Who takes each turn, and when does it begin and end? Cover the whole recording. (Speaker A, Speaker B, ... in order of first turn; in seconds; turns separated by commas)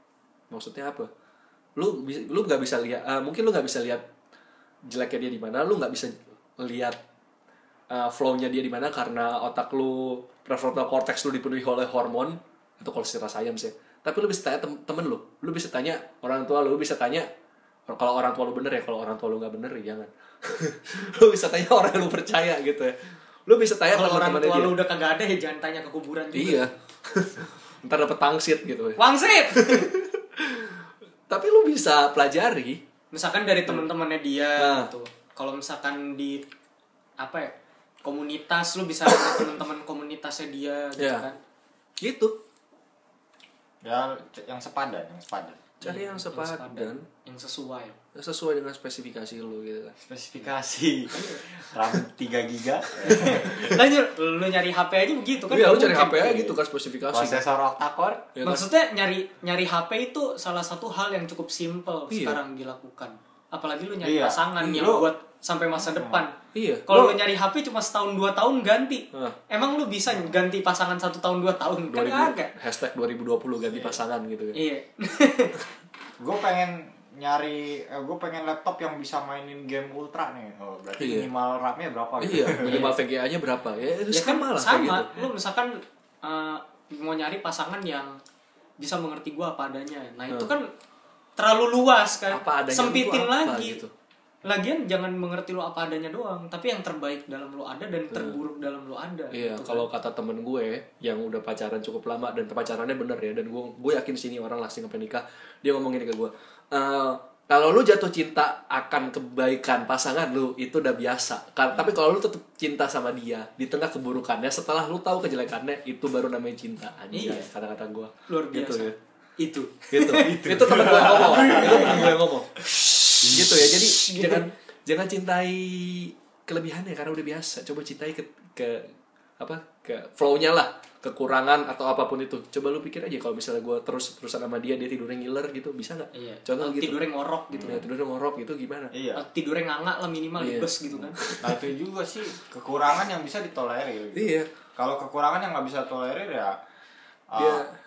Speaker A: 0.5-1.1, Speaker A: 1.8-4.1, Speaker A: 4.8-7.0, Speaker A: 7.9-17.3, Speaker A: 17.9-23.0, Speaker A: 23.5-24.8, Speaker B: 23.9-26.7, Speaker A: 26.4-32.8, Speaker B: 29.0-29.9, Speaker B: 33.1-36.5, Speaker A: 34.6-34.9, Speaker B: 37.2-41.4, Speaker A: 39.2-39.5, Speaker A: 41.0-41.3, Speaker A: 42.0-42.4, Speaker C: 43.8-45.6, Speaker B: 45.8-48.0, Speaker A: 45.8-47.0, Speaker A: 48.1-49.9, Speaker C: 50.0-53.8, Speaker B: 51.1-51.4, Speaker B: 53.0-56.6, Speaker A: 55.5-57.4, Speaker C: 57.1-58.3, Speaker A: 58.4-58.7, Speaker B: 58.4-66.3, Speaker A: 62.1-62.4, Speaker C: 64.0-65.1, Speaker C: 65.8-66.3, Speaker A: 66.5-67.1, Speaker B: 66.9-72.5, Speaker C: 70.1-70.4, Speaker A: 71.9-74.6, Speaker C: 73.7-74.0, Speaker B: 74.5-75.6, Speaker C: 76.2-82.9, Speaker A: 81.0-81.3, Speaker A: 82.2-85.3, Speaker B: 82.6-83.0, Speaker B: 84.1-88.2, Speaker B: 88.8-90.7, Speaker B: 91.4-93.8, Speaker A: 92.3-93.9, Speaker B: 94.4-99.9, Speaker A: 98.1-98.4, Speaker A: 99.3-119.0, Speaker B: 117.1-117.5, Speaker B: 118.3-122.2, Speaker A: 119.9-137.0, Speaker C: 120.2-122.2, Speaker C: 123.2-123.9, Speaker B: 124.0-124.5, Speaker B: 136.1-137.8, Speaker C: 137.5-137.8, Speaker A: 137.6-138.9, Speaker C: 138.9-139.2, Speaker B: 139.2-141.2, Speaker A: 140.4-141.6, Speaker C: 141.4-146.6, Speaker A: 144.2-144.5, Speaker C: 147.3-147.7, Speaker A: 147.4-147.7